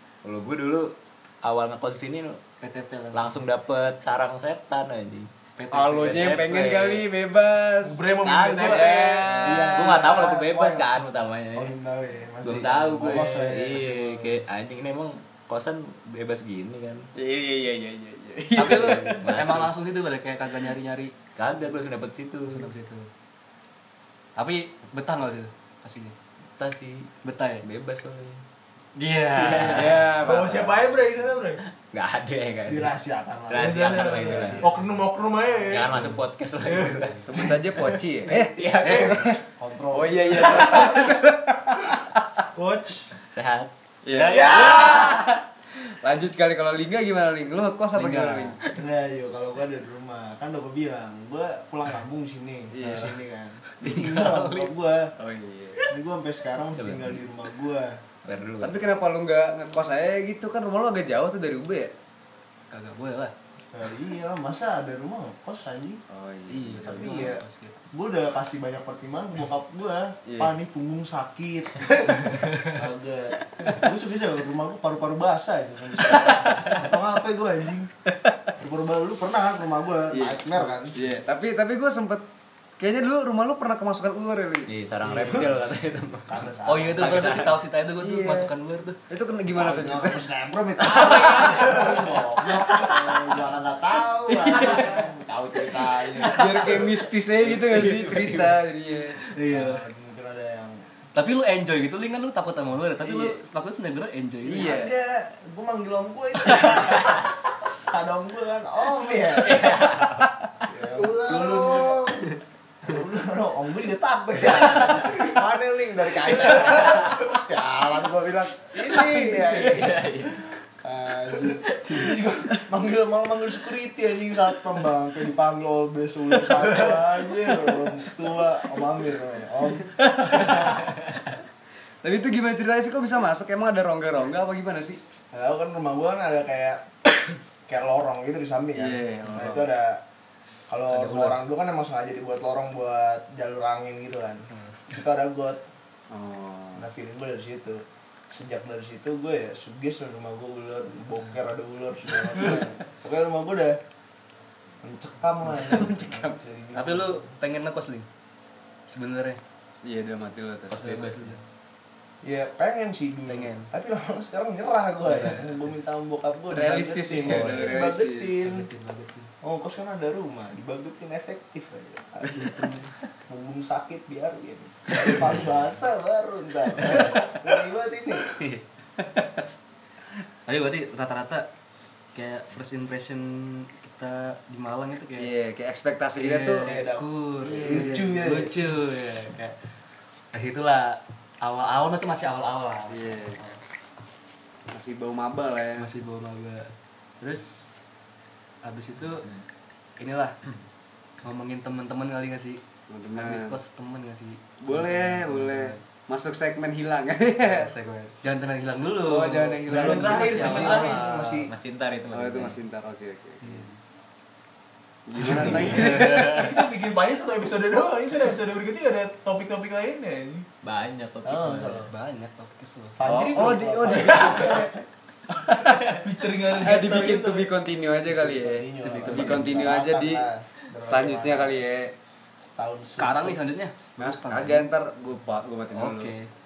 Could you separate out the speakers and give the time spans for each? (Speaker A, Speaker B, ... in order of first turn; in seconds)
Speaker A: 0.2-2.4, 3.1-5.3, 6.0-7.0, 8.2-11.7, 12.4-17.1, 18.6-19.7, 21.4-22.7, 26.6-27.1, 27.6-28.4, 29.3-30.5, 31.8-32.9, 33.5-34.7, 35.7-37.5, 38.5-39.1, 43.3-43.7, 53.8-54.7, 56.8-57.2, 58.2-58.8, 84.7-87.6, 97.4-98.6, 109.5-110.3, 119.0-120.4, 121.5-122.2, 160.7-161.4, 211.1-212.6, 220.6-221.9
Speaker B: 2.6-3.4, 5.6-6.4, 18.5-21.1, 22.5-23.1, 24.4-26.1, 27.2-27.6, 29.0-30.1, 44.1-45.1, 47.9-48.6, 62.7-63.3, 66.5-67.8, 86.7-89.0, 90.9-92.0, 96.2-97.0, 99.3-99.8, 101.1-104.9, 106.4-106.8, 109.6-110.2, 140.9-141.4, 144.5-144.8, 156.7-158.1, 158.9-159.4, 160.8-161.4, 163.3-163.7, 165.1-165.6, 168.4-169.3, 172.3-172.9, 178.3-178.6, 180.5-181.5, 182.1-185.3, 186.2-189.5, 190.3-193.6, 195.8-197.7, 198.6-199.3, 200.0-200.3, 201.2-202.6, 203.1-205.8, 207.4-211.4, 213.4-213.7, 215.2-216.5, 221.9-223.1, 228.8-229.7, 232.9-234.7, 235.7-236.3
Speaker C: 5.7-10.3, 17.1-19.2, 29.6-30.8, 37.3-39.4, 39.9-42.2, 44.0-48.6, 52.7-53.1, 55.2-55.8, 58.6-61.9, 66.1-67.3, 70.3-70.5, 80.1-82.2, 82.8-84.7, 88.0-88.5, 89.1-90.2, 90.9-92.0, 94.3-95.0, 96.2-99.2, 103.0-103.3, 104.5-105.1, 130.0-130.8, 132.0-135.0, 138.8-139.7, 146.1-146.9, 155.5-156.3, 159.8-161.0, 166.5-168.3, 185.2-186.8, 187.4-188.1, 192.9-193.4, 194.7-195.9, 202.9-203.6, 204.6-207.7, 209.1-211.0, 212.1-213.7, 215.1-216.5, 223.0-224.7, 225.4-225.9, 226.5-230.2, 230.8-231.9, 234.0-236.1
Speaker D: 7.8-9.4, 30.2-31.6, 33.5-38.0, 38.8-39.2, 42.5-43.1, 209.7-210.9, 216.1-220.4, 226.0-227.5
Speaker E: 9.4-10.9, 11.5-14.4, 32.6-34.7, 38.3-40.6, 44.3-45.2, 48.7-55.1, 55.9-57.9, 63.7-66.0, 66.8-77.9, 78.6-80.9, 85.0-87.3, 89.5-96.9, 99.4-100.8, 104.6-109.9, 110.7-130.5, 135.3-136.9, 137.7-140.0, 140.7-145.6, 146.8-153.8, 154.8-157.3, 162.2-168.7, 169.4-172.8, 173.3-178.3, 186.6-188.7, 209.7-211.5, 215.2-216.0, 221.2-221.9, 223.0-224.8, 228.1-231.9, 232.4-233.4